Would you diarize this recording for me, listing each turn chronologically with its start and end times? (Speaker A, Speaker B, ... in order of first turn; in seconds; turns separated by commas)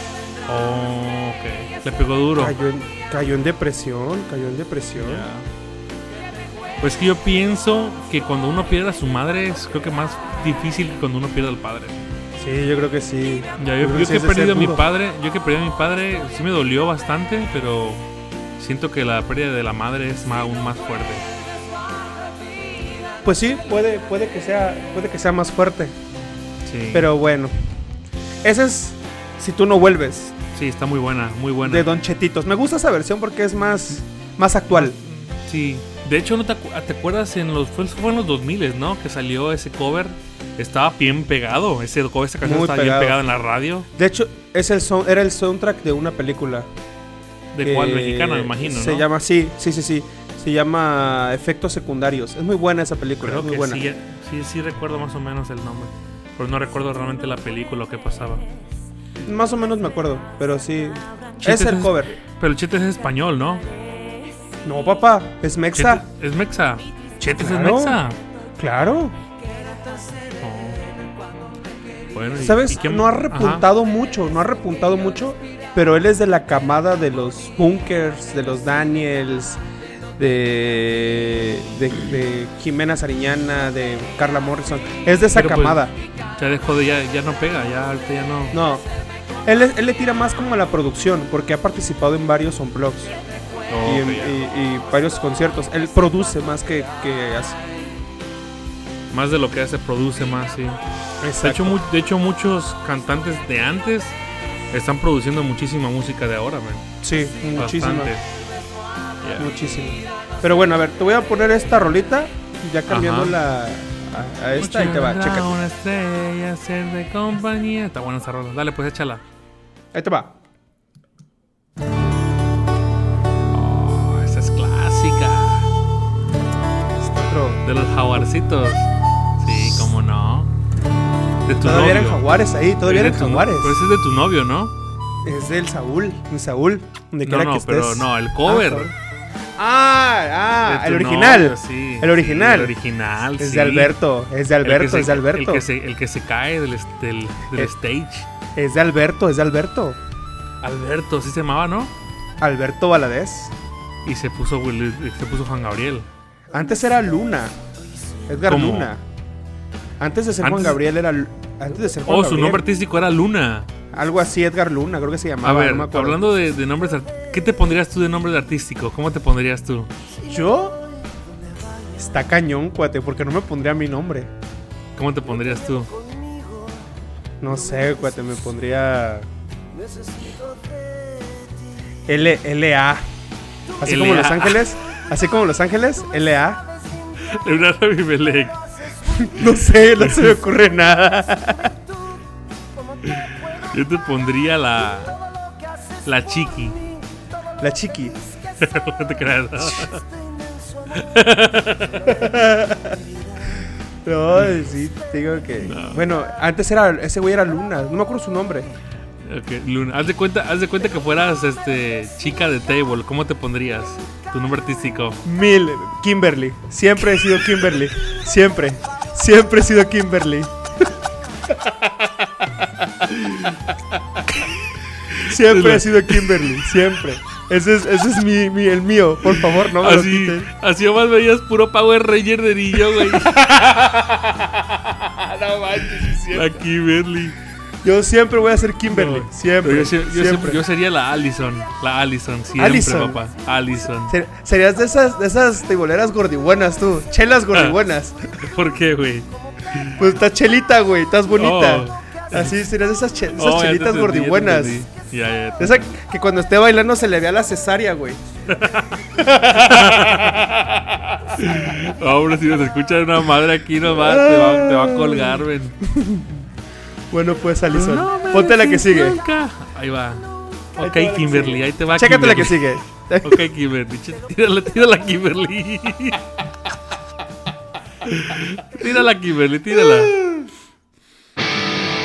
Speaker A: 0.5-2.5, Speaker B: 2.4-5.2, Speaker A: 5.0-5.5, Speaker A: 6.8-12.0, Speaker B: 12.4-14.9, Speaker A: 13.6-18.1, Speaker A: 18.6-21.3, Speaker B: 23.2-25.9, Speaker A: 26.6-27.1, Speaker B: 26.9-27.5, Speaker B: 28.4-30.4, Speaker A: 30.5-31.9, Speaker B: 31.6-35.0, Speaker A: 34.7-43.9, Speaker B: 42.4-43.2, Speaker B: 44.0-46.7, Speaker A: 47.5-49.0, Speaker B: 47.6-53.8, Speaker A: 53.2-58.5, Speaker B: 59.2-62.1, Speaker A: 61.4-63.6, Speaker B: 64.6-66.0, Speaker A: 65.7-68.2, Speaker B: 67.3-68.0, Speaker B: 68.6-69.2, Speaker A: 70.4-70.8, Speaker A: 72.1-73.7, Speaker B: 72.4-79.6, Speaker B: 80.2-85.9, Speaker A: 85.3-88.6, Speaker B: 88.5-88.9, Speaker B: 89.4-93.1, Speaker A: 93.7-94.4, Speaker B: 93.8-97.6, Speaker A: 99.1-100.8, Speaker B: 101.2-101.8, Speaker A: 101.4-104.2, Speaker A: 104.7-106.9, Speaker B: 107.0-108.1, Speaker A: 107.5-108.3, Speaker A: 109.2-109.5, Speaker B: 109.4-115.5, Speaker A: 112.9-113.3, Speaker A: 114.5-119.2, Speaker B: 119.9-120.3, Speaker A: 123.5-125.7, Speaker B: 126.9-127.6, Speaker A: 127.6-130.5, Speaker A: 131.4-132.2, Speaker B: 131.6-133.8, Speaker A: 132.8-134.7, Speaker B: 135.2-138.9, Speaker A: 137.2-138.9, Speaker B: 139.6-142.7, Speaker A: 140.6-143.9, Speaker B: 143.4-145.6, Speaker A: 144.6-148.3, Speaker B: 148.5-150.0, Speaker A: 150.6-151.9, Speaker B: 152.4-153.5, Speaker A: 154.0-156.1, Speaker B: 156.5-157.5, Speaker B: 158.3-159.0, Speaker A: 158.5-158.9, Speaker B: 160.0-162.6, Speaker A: 160.4-160.8, Speaker A: 162.1-163.7, Speaker B: 163.9-166.2, Speaker A: 165.4-169.9, Speaker B: 170.2-170.8, Speaker B: 171.9-174.3, Speaker A: 174.9-175.9, Speaker B: 177.4-179.3, Speaker B: 182.1-183.1, Speaker B: 183.8-186.7, Speaker A: 183.8-184.6, Speaker A: 187.2-188.6, Speaker B: 189.1-191.7, Speaker A: 190.0-190.3, Speaker A: 193.0-195.2, Speaker A: 196.0-196.8, Speaker B: 197.6-198.2, Speaker A: 198.6-200.0, Speaker A: 200.9-202.1, Speaker B: 202.0-203.1, Speaker B: 203.6-208.7, Speaker A: 205.6-206.0, Speaker A: 209.2-215.2, Speaker B: 215.2-220.9, Speaker B: 221.5-222.2, Speaker B: 223.0-223.5, Speaker A: 223.2-223.4, Speaker A: 225.1-226.4, Speaker B: 225.2-230.5, Speaker A: 229.4-234.1, Speaker B: 232.9-236.7, Speaker A: 236.3-237.3, Speaker B: 237.8-240.6, Speaker A: 238.9-244.1, Speaker B: 242.6-243.2, Speaker B: 244.1-248.2, Speaker A: 248.3-250.0, Speaker B: 250.0-254.9, Speaker A: 251.3-252.5, Speaker A: 253.3-255.9, Speaker B: 255.6-258.2, Speaker A: 258.5-265.8, Speaker B: 259.1-260.5, Speaker B: 263.8-266.4, Speaker B: 267.1-269.2, Speaker A: 267.7-276.3, Speaker B: 270.8-273.4, Speaker A: 278.0-280.2, Speaker B: 279.8-280.5